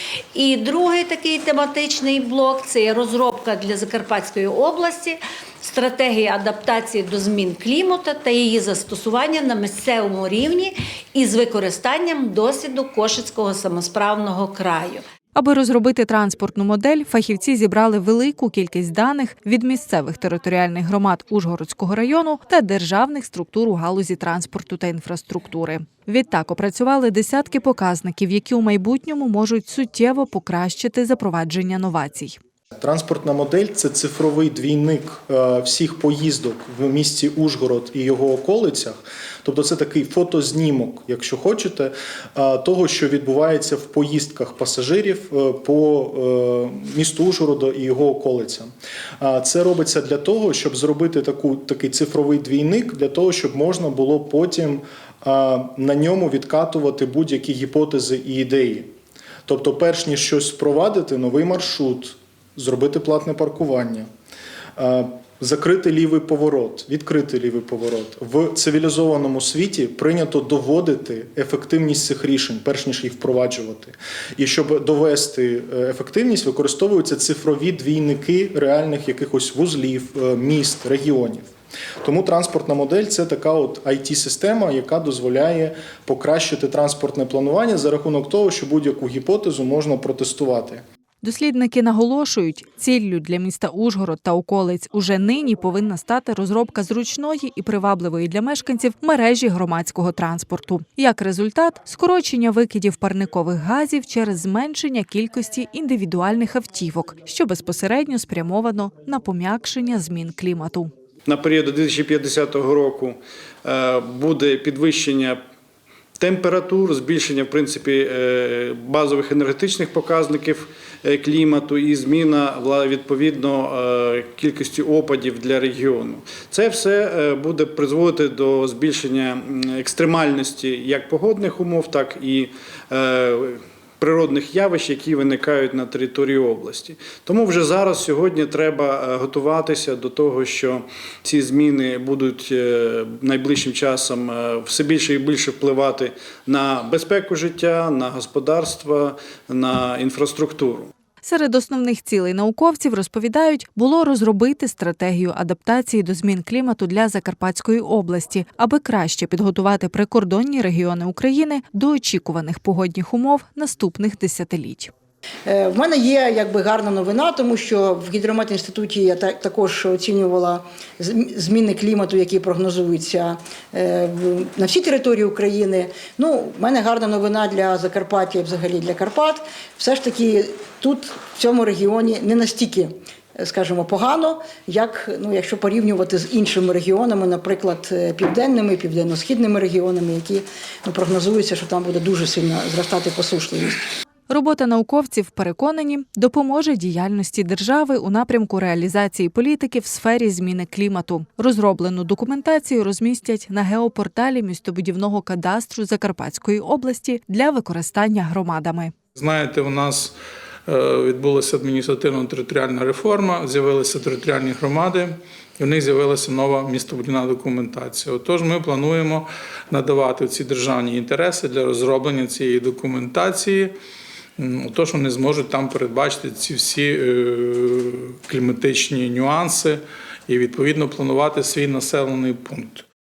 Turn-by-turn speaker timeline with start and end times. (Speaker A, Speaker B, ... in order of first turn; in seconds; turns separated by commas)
Speaker A: 0.3-15.0, Speaker B: 15.3-32.4, Speaker C: 32.8-58.9, Speaker C: 59.5-64.1, Speaker C: 64.8-81.5, Speaker C: 82.0-90.8, Speaker B: 91.2-110.9, Speaker D: 111.3-115.4, Speaker D: 116.2-150.9, Speaker B: 151.2-164.9, Speaker E: 165.4-193.8, Speaker B: 194.3-208.9, Speaker F: 209.2-210.1, Speaker F: 210.7-223.8, Speaker F: 224.4-232.8